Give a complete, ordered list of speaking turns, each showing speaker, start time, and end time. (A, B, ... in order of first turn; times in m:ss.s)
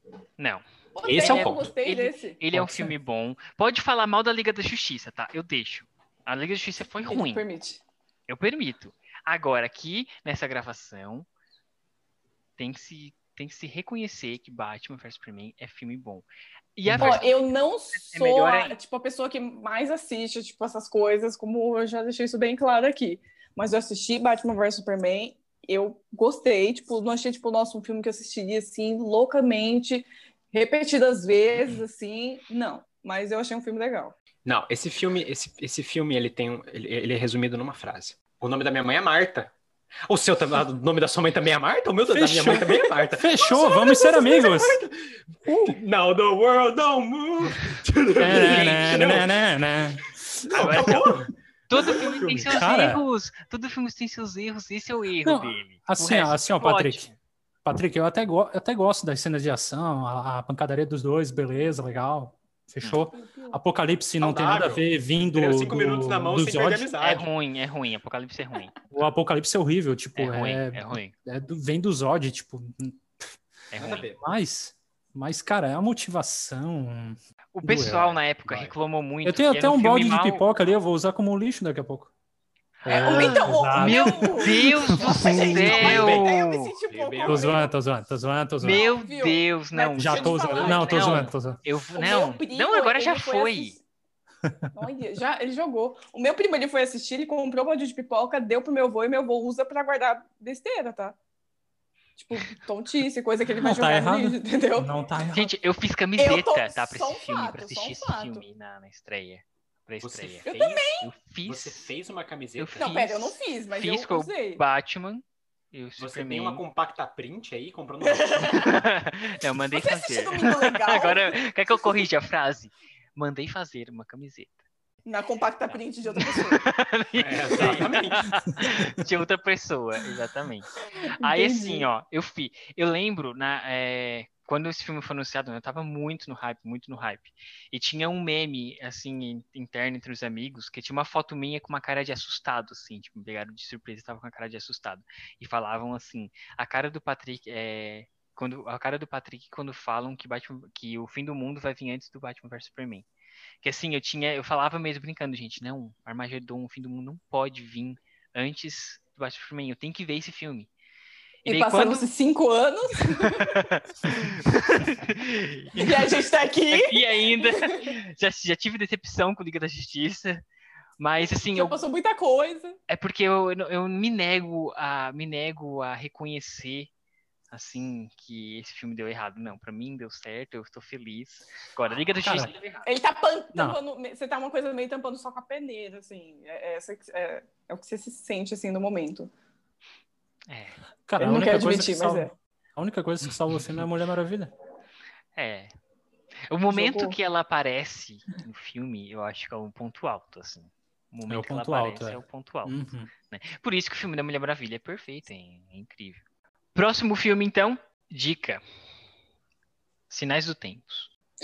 0:00.4-0:07.4 A
0:01.0-0:02.4 B
0:01.0-0:01.7 C
0:02.5-0:02.9 D
0:07.0-0:07.8 B
0:08.3-0:11.3 A
0:12.6-0:17.4 A
0:16.9-0:17.2 D
0:17.0-0:34.1 B
0:18.0-0:18.8 A
0:34.4-0:39.5 C
0:40.1-0:43.7 C
0:42.1-0:44.8 D
0:43.4-0:44.7 B
0:44.4-0:44.9 C
0:45.5-0:49.3 C
0:48.2-0:51.2 D
0:48.3-0:49.2 A
0:50.5-0:51.3 C
0:50.5-0:51.1 A
0:51.7-0:57.2 A
0:51.9-0:52.6 C
0:52.5-0:53.0 D
0:55.2-0:57.1 D
0:57.6-1:07.0 D
1:03.1-1:03.6 B
1:04.2-1:07.3 C
1:07.0-1:08.7 A
1:08.9-1:13.2 D
1:10.2-1:11.1 A
1:13.7-1:14.1 A
1:13.8-1:14.2 C
1:14.2-1:18.2 D
1:17.5-1:20.4 A
1:18.5-1:18.7 C
1:19.2-1:22.1 D
1:22.8-1:26.7 A
1:22.9-1:26.0 D
1:22.9-1:27.7 B
1:25.4-1:26.3 C
1:26.8-1:27.6 C
1:27.2-1:28.8 D
1:28.6-1:31.3 B
1:28.6-1:33.8 A
1:30.0-1:31.6 D
1:32.0-1:33.8 B
1:34.4-1:34.7 D
1:34.7-1:41.2 B
1:42.2-1:44.9 B
1:43.6-1:45.5 D
1:45.3-1:50.5 A
1:46.2-1:48.4 B
1:50.0-1:52.9 C
1:50.5-1:51.1 B
1:51.0-1:51.9 A
1:52.6-1:56.6 A
1:52.8-1:54.6 B
1:56.0-1:58.8 C
1:58.0-1:58.9 B
1:58.6-2:04.6 A
1:59.7-2:01.4 B
2:05.0-2:06.7 B
2:05.7-2:10.7 A
2:07.2-2:08.3 C
2:11.0-2:11.9 B
2:11.2-2:33.1 A
2:33.6-2:40.7 A
2:41.5-2:42.1 A
2:41.5-2:43.7 B
2:43.1-2:46.2 A
2:45.8-2:47.9 B
2:46.7-2:50.4 A
2:51.0-2:51.8 A
2:51.2-2:52.8 B
2:52.9-2:56.9 A
2:57.5-3:02.8 A
3:02.2-3:02.5 D
3:02.8-3:09.3 B
3:10.5-3:10.8 A
3:11.1-3:14.5 D
3:11.2-3:12.3 B
3:15.4-3:15.7 A
3:16.5-3:26.2 A
3:16.7-3:17.2 B
3:21.3-3:23.1 D
3:26.8-3:28.6 A
3:30.1-3:31.1 A